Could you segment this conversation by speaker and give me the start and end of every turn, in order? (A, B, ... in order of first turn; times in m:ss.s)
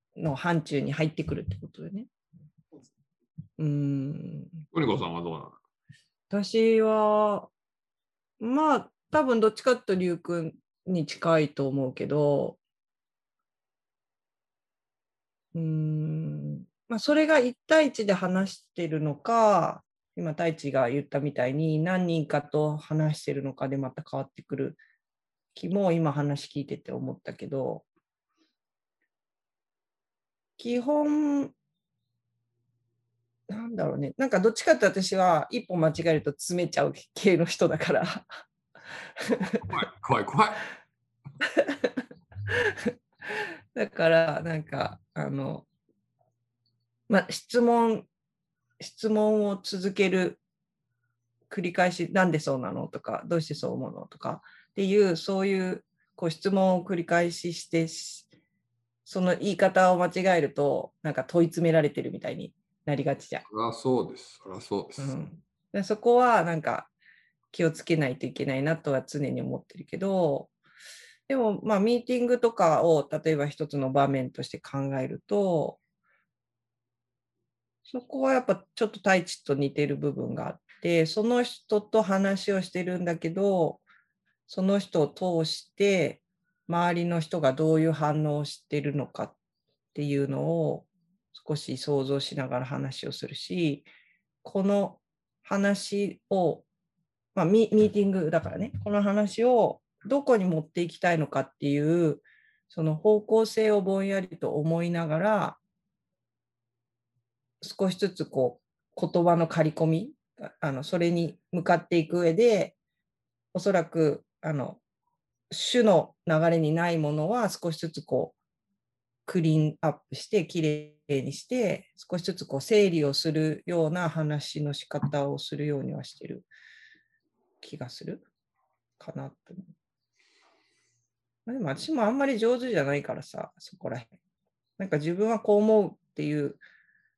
0:00.2-0:02.1 A
0:03.6-0:04.6 A
0:04.7-0:05.6 B
0:06.3-0:07.5 A
0:08.4-0:12.6 A
0:15.5-0:24.8 A
0:25.6-0:27.8 A
0:30.6-0:31.5 A
0:33.5-0:38.3 A
0:39.2-0:39.7 A
0:39.7-0:40.7 B
0:41.6-0:45.7 A
0:47.1-0:48.1 A
0:48.8-0:50.4 A
0:51.5-0:58.3 A
0:59.1-1:03.4 A
1:03.5-1:05.2 B
1:05.0-1:06.9 A
1:07.5-1:10.5 A
1:11.3-1:15.8 A
1:17.9-1:23.8 A
1:24.5-1:29.4 A
1:29.9-1:33.9 A
1:34.4-1:36.6 A
1:37.4-1:45.6 A
1:47.6-1:52.8 A
1:53.5-1:54.8 A
1:55.5-1:58.4 A
1:59.3-2:06.5 A
2:07.6-2:08.3 A
2:09.0-2:09.7 A
2:11.5-2:14.1 A
2:14.8-2:16.6 A